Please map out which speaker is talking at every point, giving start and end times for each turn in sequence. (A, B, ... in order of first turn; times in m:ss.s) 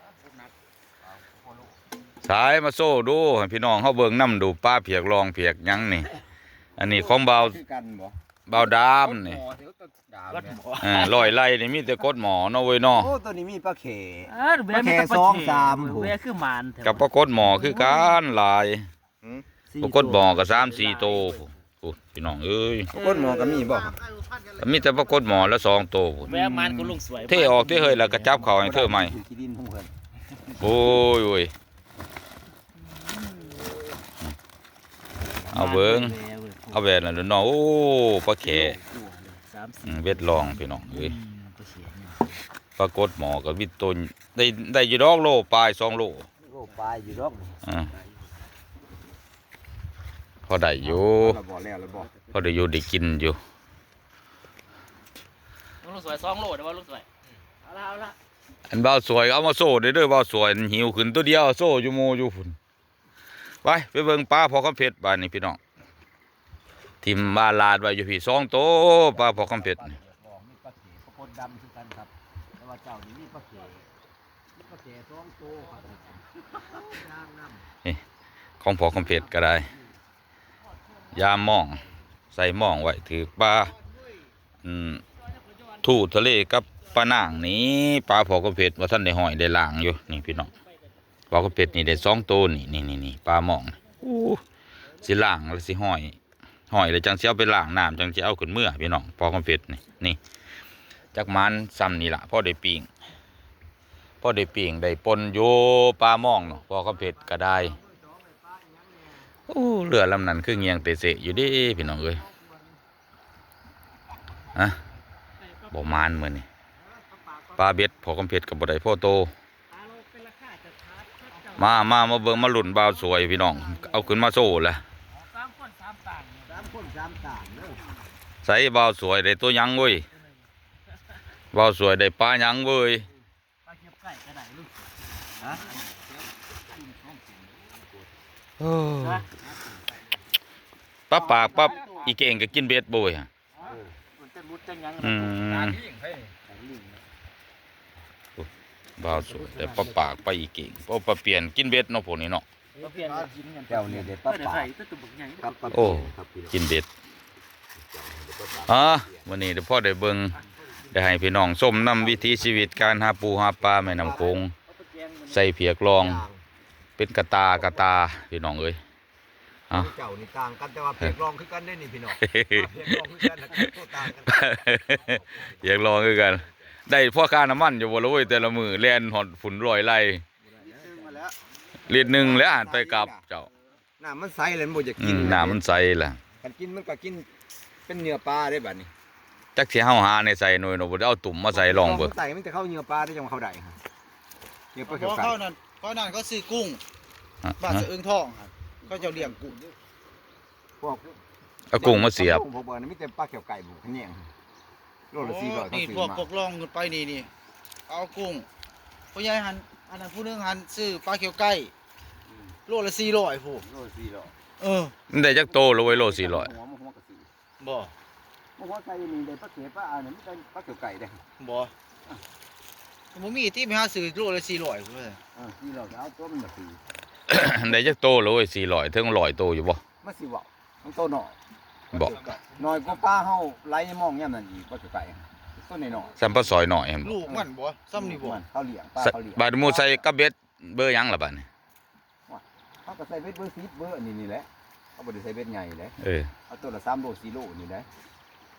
0:01.2-0:01.6 A
0:02.2-0:06.1 B
0:06.8-0:07.6 B
0:06.8-0:10.6 A
0:08.5-0:09.4 B
0:10.3-0:11.3 C
0:10.8-0:13.1 B
0:12.9-0:16.2 A
0:14.3-0:18.2 C
0:16.8-0:18.8 B
0:19.7-0:21.4 C
0:19.8-0:22.9 B
0:22.9-0:24.3 C
0:22.9-0:24.0 A
0:24.5-0:26.6 B
0:26.2-0:28.3 C
0:26.6-0:27.0 A
0:27.2-0:29.2 B
0:28.1-0:29.9 A
0:30.6-0:31.5 B
0:32.8-0:33.7 C
0:35.5-0:36.8 C
0:35.5-0:36.2 B
0:36.7-0:38.8 B
0:38.4-0:39.4 A
0:39.5-0:42.4 C
0:39.8-0:41.2 B
0:42.8-0:46.2 B
0:46.4-0:47.6 A
0:50.5-0:51.4 B
0:50.8-0:52.1 A
0:52.3-0:53.4 B
0:55.8-0:57.0 C
0:57.6-0:58.2 C
0:58.7-1:02.6 B
1:03.6-1:05.6 B
1:07.0-1:10.0 B
1:09.1-1:13.8 A
1:14.5-1:17.6 A
1:18.6-1:19.7 B
1:19.0-1:19.8 A
1:21.1-1:23.7 B
1:24.6-1:25.0 B
1:25.8-1:30.5 B
1:31.3-1:34.4 B
1:35.0-1:36.2 B
1:36.7-1:40.2 B
1:41.1-1:42.9 B
1:44.2-1:47.8 B
1:47.2-1:49.3 A
1:49.5-1:52.2 B
1:52.1-1:52.7 A
1:55.7-1:56.4 B
1:57.6-1:59.3 B
1:59.7-2:01.7 C
2:01.6-2:04.8 B
2:03.2-2:04.0 A
2:05.2-2:06.6 C
2:06.4-2:07.9 A
2:08.4-2:10.0 B
2:11.5-2:13.0 B
2:13.6-2:14.9 C
2:16.4-2:17.8 A
2:18.6-2:19.2 B
2:19.0-2:19.3 C
2:21.1-2:23.3 B
2:21.1-2:22.1 C
2:24.2-2:25.8 C
2:25.0-2:25.8 B
2:26.4-2:27.0 C
2:28.4-2:32.4 B
2:29.5-2:29.9 C
2:32.8-2:35.9 C
2:33.7-2:34.7 A
2:35.4-2:36.6 A
2:35.7-2:36.9 B
2:37.9-2:39.3 A
2:38.7-2:40.4 B
2:40.9-2:44.5 B
2:42.0-2:43.0 A
2:43.6-2:44.4 A
2:44.7-2:45.4 C
2:45.3-2:46.2 B
2:46.0-2:46.4 A
2:47.0-2:48.8 B
2:49.7-2:54.5 A
2:52.2-2:53.6 B
2:54.2-3:00.2 B
2:55.0-2:56.1 A
3:00.5-3:03.2 A
3:01.8-3:03.5 B
3:04.0-3:05.6 A
3:05.0-3:06.2 B
3:06.4-3:07.3 A
3:07.9-3:08.9 A
3:09.6-3:12.1 B
3:11.5-3:13.8 A
3:14.7-3:15.4 A
3:14.9-3:16.8 D
3:17.4-3:17.9 B
3:17.6-3:19.5 D
3:18.9-3:19.7 A
3:20.8-3:21.1 A
3:21.7-3:22.4 B
3:21.8-3:24.3 A
3:25.1-3:26.3 A
3:25.2-3:27.3 D
3:27.9-3:28.5 D
3:29.1-3:31.7 D
3:32.7-3:33.6 D
3:33.6-3:34.3 A
3:34.6-3:34.9 D
3:35.1-3:36.5 B
3:35.3-3:37.3 A
3:37.6-3:37.9 D
3:38.6-3:41.2 A
3:41.4-3:41.7 D
3:43.1-3:45.2 D
3:45.3-3:46.8 A
3:47.3-3:49.8 B
3:50.0-3:51.4 A
3:52.0-3:56.2 A
3:52.3-3:52.6 D
3:56.2-3:57.3 B
3:57.0-3:58.4 D
3:57.2-4:00.0 A
3:59.0-4:01.4 B
4:02.3-4:06.0 A
4:06.0-4:06.3 B
4:06.5-4:07.9 A